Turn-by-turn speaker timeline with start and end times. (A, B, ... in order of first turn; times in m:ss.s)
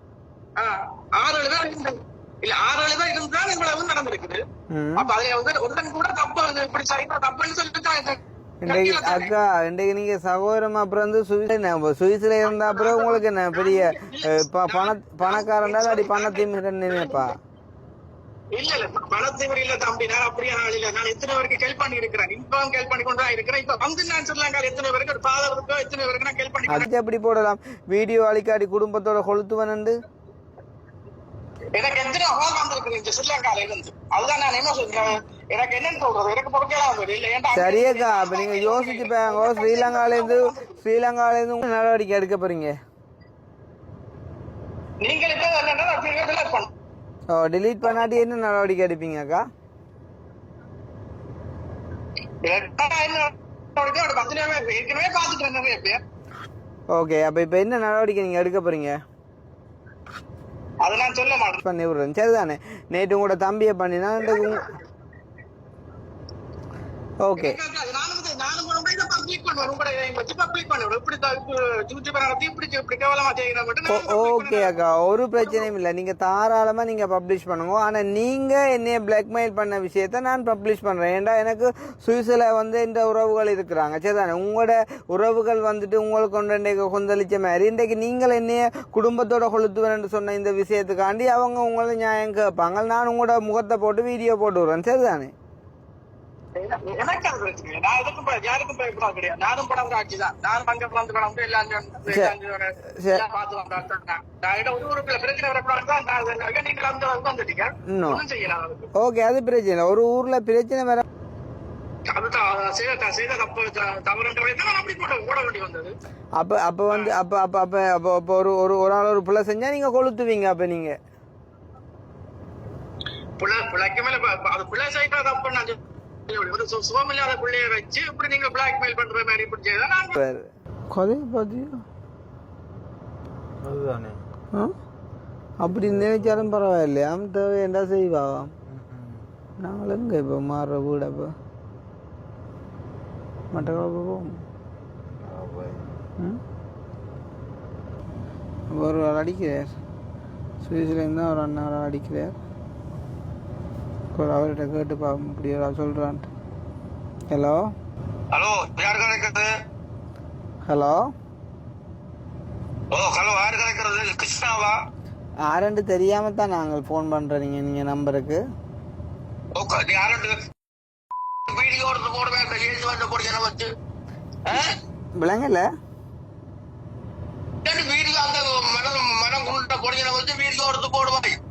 0:00.6-0:04.4 A
0:04.7-0:05.1 B
0:05.0-0:09.3 A
0:08.6-0:17.4 B
0:12.4-0:17.3 A
0:18.6-0:26.9 A
0:26.7-0:30.0 B
0:31.8-0:40.7 A
0:37.5-0:42.7 B
0:45.0-0:46.7 A
0:47.3-0:49.4 B
0:52.4-0:56.0 A
0:56.9-0:59.0 B
1:00.8-1:01.6 A
1:01.6-1:04.7 B
1:07.2-1:07.6 B
1:07.4-1:14.8 A
1:13.9-1:35.3 B
1:15.4-1:15.7 A
1:36.6-1:48.9 A
1:42.1-1:42.3 B
1:42.9-1:43.2 B
1:47.9-1:48.2 B
1:49.0-1:51.0 B
1:52.1-1:55.9 A
1:56.4-2:01.0 B
1:56.9-1:57.2 A
2:03.4-2:10.2 A
2:10.2-2:11.8 B
2:13.6-2:14.2 C
2:15.6-2:18.5 B
2:15.8-2:16.1 C
2:18.7-2:19.2 C
2:19.6-2:21.3 B
2:23.5-2:24.4 B
2:25.2-2:25.9 C
2:28.7-2:29.8 B
2:30.6-2:32.4 B
2:34.2-2:36.3 B
2:37.3-2:37.7 B
2:38.3-2:39.5 D
2:40.7-2:41.0 B
2:42.9-2:44.8 D
2:45.5-2:48.4 B
2:49.6-2:50.4 D
2:51.5-2:53.7 D
2:55.2-2:55.6 B
2:57.6-3:01.4 D